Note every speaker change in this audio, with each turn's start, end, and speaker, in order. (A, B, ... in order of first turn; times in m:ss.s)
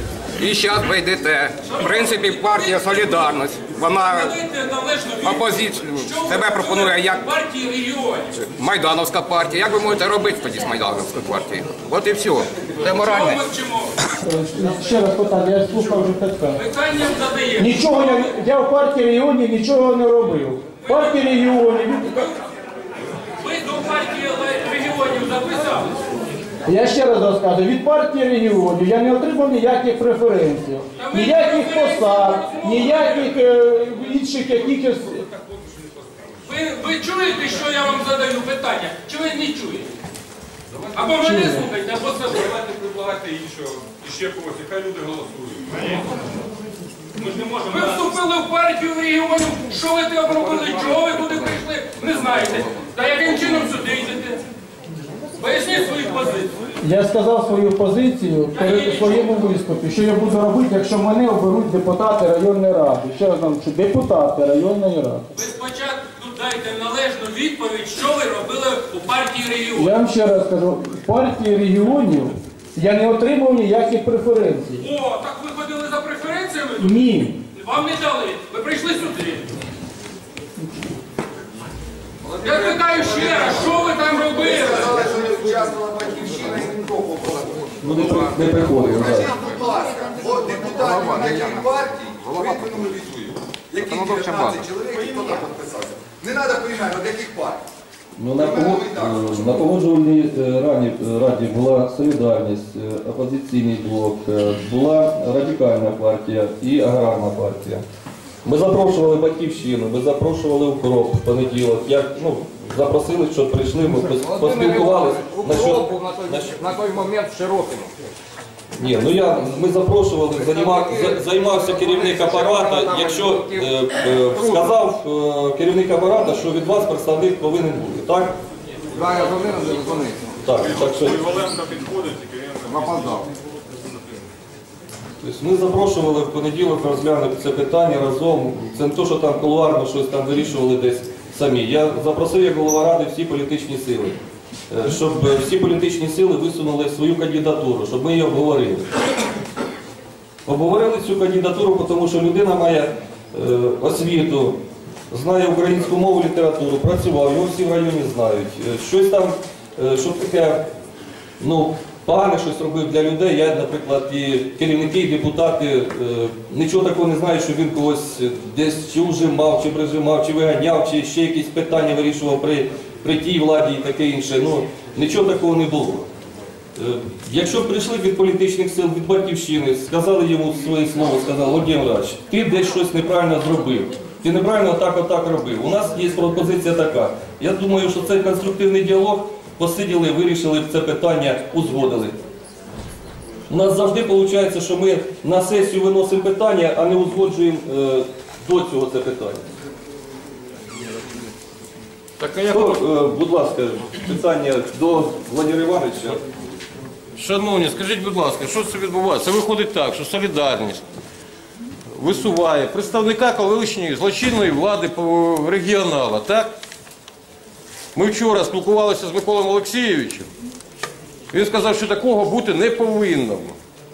0:00.4-0:04.3 A
0:01.6-0:08.4 B
0:05.2-0:07.3 A
0:08.5-0:13.4 A
0:12.8-0:13.9 B
0:14.2-0:16.6 C
0:16.6-0:18.3 B
0:17.6-0:22.3 C
0:20.8-0:22.4 B
0:23.4-0:26.3 B
0:26.7-0:35.3 C
0:31.0-0:33.4 B
0:36.4-0:39.9 B
0:40.9-0:42.5 B
0:41.1-0:41.7 C
0:42.4-0:46.0 D
0:47.2-0:54.4 B
0:47.2-0:48.1 D
0:55.4-0:56.6 B
0:56.8-1:05.3 C
0:58.5-0:59.5 B
1:05.3-1:10.0 B
1:09.8-1:14.9 C
1:14.8-1:17.0 B
1:16.8-1:17.4 C
1:17.5-1:19.5 B
1:22.4-1:25.0 B
1:22.4-1:28.1 E
1:27.8-1:29.3 F
1:27.9-1:29.2 A
1:28.9-1:37.6 E
1:30.7-1:31.7 A
1:32.2-1:32.7 A
1:33.8-1:34.6 A
1:38.2-1:47.8 F
1:38.3-1:39.6 E
1:48.4-1:56.6 F
1:54.0-1:57.9 A
1:58.8-2:08.4 F
2:00.4-2:03.7 A
2:04.3-2:04.7 A
2:08.9-2:10.2 A
2:10.4-2:11.2 F
2:10.7-2:12.7 D
2:12.6-2:13.2 A
2:15.2-2:24.2 F
2:24.7-2:28.9 F
2:30.5-2:40.7 F
2:41.4-2:56.1 F
2:56.8-3:12.2 F
3:13.5-3:19.4 F
3:22.2-3:22.8 G
3:22.4-3:26.2 F
3:27.2-3:30.8 G
3:31.9-3:36.5 G
3:38.0-3:40.3 G
3:41.3-3:43.6 G